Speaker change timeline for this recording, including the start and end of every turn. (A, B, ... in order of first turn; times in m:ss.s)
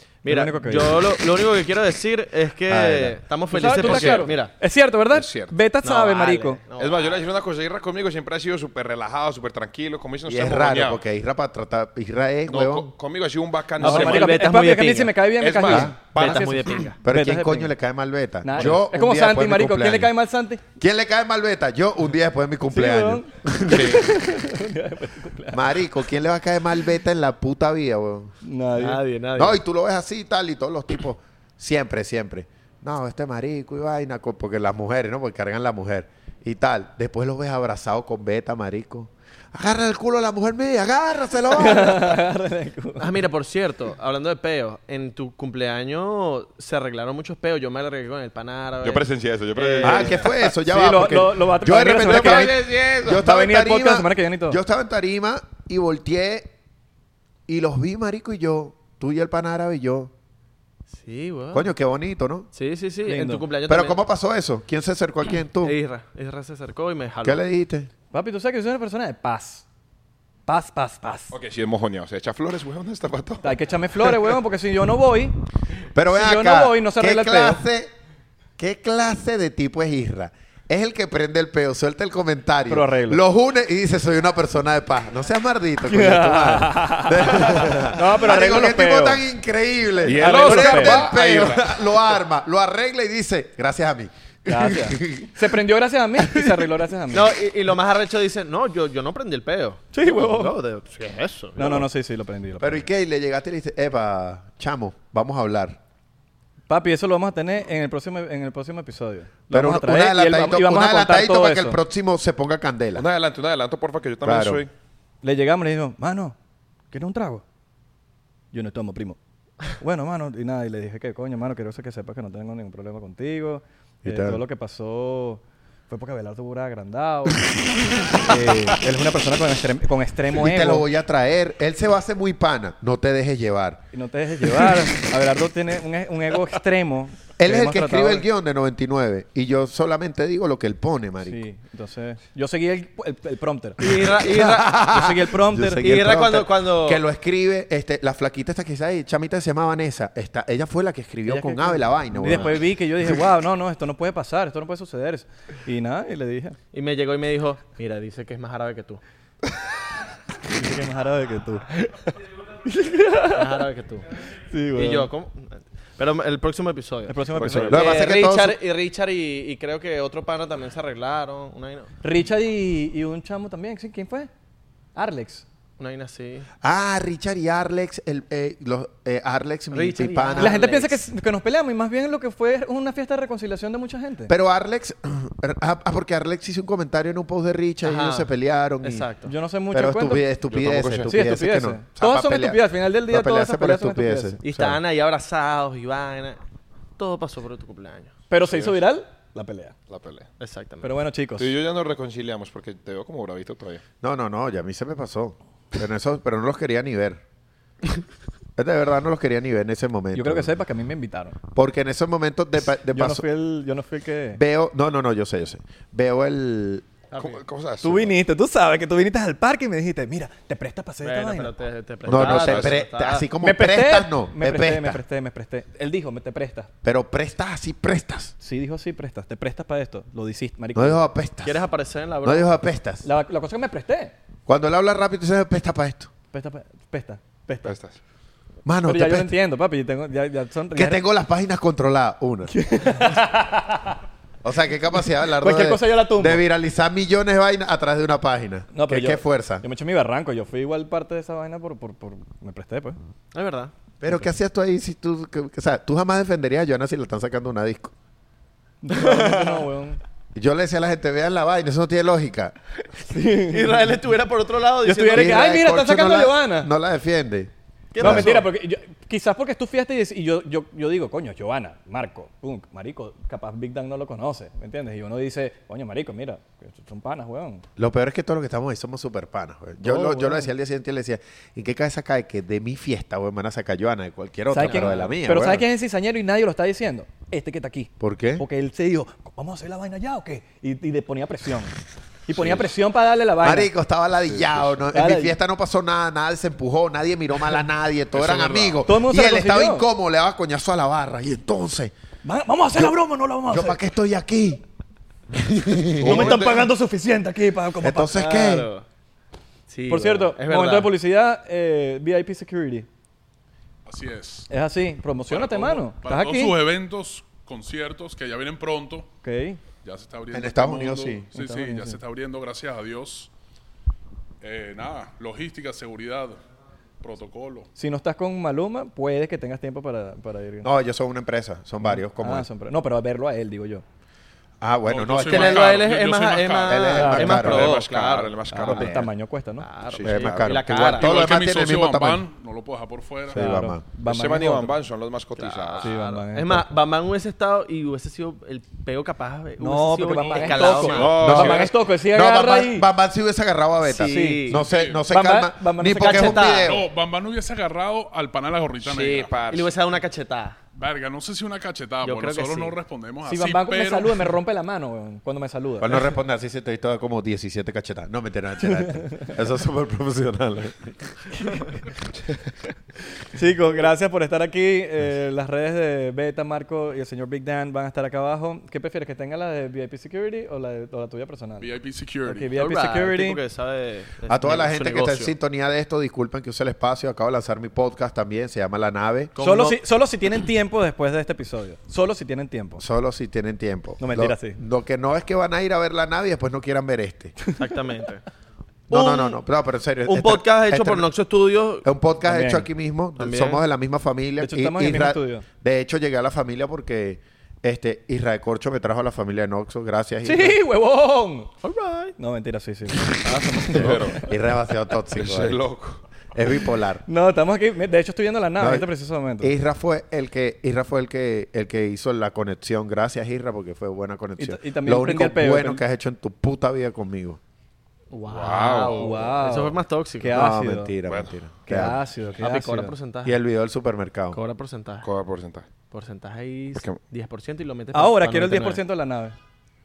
0:00.2-0:04.5 A
0:00.3-0:01.0 B
0:02.7-0:03.2 C
0:03.5-0:06.6 B
0:03.8-0:04.2 C
0:03.8-0:04.2 D
0:05.1-0:05.6 D
0:05.8-0:07.2 A
0:06.8-0:11.0 D
0:10.2-0:12.9 C
0:12.5-0:14.5 D
0:13.8-0:15.2 A
0:13.8-0:17.7 B
0:15.4-0:16.9 D
0:15.6-0:16.0 C
0:16.1-0:17.0 A
0:17.0-0:20.1 C
0:18.4-0:20.6 B
0:20.8-0:24.0 C
0:22.7-0:25.8 B
0:23.6-0:24.1 D
0:25.5-0:28.3 C
0:28.4-0:29.0 B
0:28.7-0:29.6 A
0:29.3-0:42.2 C
0:41.5-0:43.1 B
0:43.0-0:50.3 A
0:48.8-0:50.4 D
0:49.8-0:56.5 C
0:50.6-0:52.5 B
0:52.0-0:53.2 D
0:53.2-0:54.6 B
0:57.5-1:00.1 C
1:00.9-1:01.7 A
1:01.5-1:02.5 C
1:02.5-1:04.0 A
1:03.0-1:03.4 B
1:03.6-1:05.8 C
1:05.6-1:07.4 A
1:07.2-1:07.9 C
1:08.1-1:09.6 B
1:10.4-1:11.3 B
1:11.3-1:13.6 D
1:13.4-1:15.4 B
1:15.9-1:17.9 C
1:16.1-1:17.6 B
1:18.6-1:35.6 C
1:22.7-1:23.2 B
1:25.8-1:29.2 B
1:30.0-1:31.9 D
1:30.2-1:31.2 B
1:34.4-1:37.3 B
1:36.2-1:36.7 C
1:37.1-1:41.8 A
1:39.9-1:40.6 B
1:40.8-1:41.6 D
1:41.6-1:42.8 B
1:42.6-1:45.8 C
1:46.7-1:51.8 B
1:49.5-1:53.0 C
1:52.9-1:54.7 D
1:54.2-1:54.6 C
1:55.2-1:56.4 B
1:56.9-1:57.4 B
1:58.5-1:59.2 B
1:59.8-2:07.5 B
2:04.0-2:04.4 C
2:08.1-2:10.8 B
2:10.3-2:13.9 C
2:13.9-2:18.2 B
2:14.4-2:14.8 C
2:17.4-2:21.4 C
2:21.2-2:23.8 B
2:23.8-2:24.9 A
2:24.1-2:32.6 C
2:24.9-2:26.0 B
2:25.8-2:27.0 A
2:31.3-2:36.6 B
2:36.7-2:39.0 A
2:40.5-2:41.6 B
2:42.6-2:43.6 B
2:43.3-2:44.1 A
2:44.5-2:45.1 B
2:44.7-2:51.9 A
2:47.1-2:48.0 B
2:47.3-2:47.8 D
2:47.7-2:48.6 C
2:52.0-2:54.3 B
2:54.9-2:55.4 B
2:55.8-2:56.5 A
2:56.6-3:00.6 C
2:59.7-3:00.9 A
3:00.4-3:04.3 B
3:04.3-3:09.1 C
3:07.8-3:08.3 A
3:08.8-3:09.3 A
3:09.2-3:10.2 B
3:09.7-3:14.8 C
3:10.5-3:11.3 D
3:11.1-3:14.4 B
3:14.4-3:16.4 A
3:17.0-3:18.1 A
3:18.3-3:19.7 B
3:18.5-3:18.7 D
3:19.9-3:20.3 D
3:20.4-3:20.9 A
3:20.8-3:21.5 B
3:21.4-3:23.8 D
3:24.0-3:27.2 C
3:28.6-3:30.6 C
3:30.1-3:31.4 B
3:31.5-3:33.2 C
3:32.9-3:34.4 B
3:34.3-3:36.9 C
3:37.1-3:37.4 A
3:37.2-3:38.1 D
3:37.8-3:41.5 B
3:41.0-3:43.3 A
3:42.0-3:42.8 D
3:42.0-3:45.0 C
3:43.4-3:46.7 B
3:46.8-3:48.3 C
3:48.4-3:51.0 B
3:50.7-3:51.6 C
3:51.4-3:52.5 A
3:52.2-3:53.1 C
3:53.0-3:54.1 B
3:54.5-3:56.1 C
3:56.3-3:57.7 B
3:57.6-3:58.0 D
3:58.6-3:59.3 C
3:58.8-4:01.0 B
4:00.7-4:02.5 C
4:02.5-4:04.0 B
4:04.4-4:09.6 C
4:05.4-4:06.4 B
4:08.7-4:13.0 B
4:13.3-4:13.7 A
4:14.0-4:17.9 C
4:18.8-4:20.0 B
4:18.9-4:19.6 A
4:20.3-4:22.5 C
4:23.1-4:23.9 B
4:23.4-4:25.4 A
4:24.8-4:26.7 B
4:25.1-4:28.4 C
4:27.9-4:28.5 A
4:28.0-4:37.6 B
4:37.8-4:45.6 C
4:39.8-4:40.5 B
4:44.5-4:51.7 B
4:48.0-4:48.4 C
4:52.2-4:53.7 B
4:53.4-5:01.9 C
4:54.9-4:55.4 B
4:58.1-4:58.8 D
4:58.8-4:59.9 B
5:02.2-5:03.8 B
5:03.5-5:04.6 C
5:05.3-5:06.4 C
5:06.0-5:06.6 D
5:06.0-5:08.6 B
5:06.1-5:06.6 A
5:07.8-5:08.7 C
5:08.1-5:08.8 A
5:09.7-5:10.9 A
5:09.9-5:12.9 B
5:13.8-5:14.5 E
5:14.5-5:16.6 B
5:15.3-5:19.1 E
5:19.2-5:19.6 B
5:19.8-5:23.3 E
5:20.3-5:21.3 C
5:21.3-5:22.0 B
5:24.4-5:26.4 E
5:27.0-5:27.7 E
5:27.8-5:30.7 B
5:30.6-5:32.4 C
5:31.8-5:33.8 B
5:34.6-5:35.8 C
5:34.8-5:37.3 E
5:35.2-5:38.4 A
5:36.7-5:37.7 C
5:36.9-5:37.5 B
5:37.3-5:39.1 D
5:38.5-5:39.7 B
5:38.7-5:39.0 C
5:39.6-5:41.4 A
5:39.9-5:40.6 D
5:40.0-5:42.2 C
5:40.8-5:43.4 E
5:43.3-5:43.8 C
5:43.3-5:44.8 B
5:44.0-5:45.9 D
5:45.4-5:51.5 A
5:45.8-5:46.6 B
5:49.6-5:52.9 B
5:50.2-5:50.9 E
5:50.8-5:51.7 D
5:51.2-5:56.9 C
5:53.8-5:54.6 A
5:53.9-5:56.6 B
5:54.6-5:55.0 E
5:56.0-5:56.8 A
5:56.6-5:59.4 E
5:58.8-5:59.7 D
5:59.4-6:00.6 A
6:00.7-6:04.4 E
6:02.0-6:02.8 A
6:03.2-6:06.0 B
6:05.8-6:11.3 C
6:13.3-6:21.7 B
6:21.6-6:22.5 E
6:22.2-6:23.4 B
6:22.5-6:25.3 A
6:24.3-6:29.3 C
6:29.3-6:29.8 A
6:29.4-6:32.8 B
6:32.8-6:37.4 C
6:34.0-6:34.6 B
6:37.6-6:38.2 A
6:38.9-6:41.1 C
6:38.9-6:39.4 A
6:40.0-6:41.8 A
6:41.8-6:50.6 C
6:42.3-6:42.6 B
6:43.2-6:43.6 A
6:44.4-6:45.4 B
6:50.2-6:51.5 B
6:51.6-6:52.2 A
6:52.2-6:54.3 B
6:53.7-6:54.3 D
6:53.8-6:55.6 C
6:55.1-6:56.0 D
6:56.3-6:57.0 C
6:57.1-6:59.5 B
6:58.6-6:58.9 C
6:59.4-7:07.4 C
7:04.4-7:05.8 B
7:08.1-7:10.4 A
7:08.3-7:09.3 D
7:09.0-7:10.9 B
7:10.3-7:12.0 C
7:11.1-7:11.3 D
7:11.6-7:12.9 B
7:12.4-7:13.4 A
7:13.2-7:14.4 C
7:14.3-7:15.1 A
7:15.0-7:15.6 D
7:15.9-7:18.8 A
7:17.9-7:19.4 B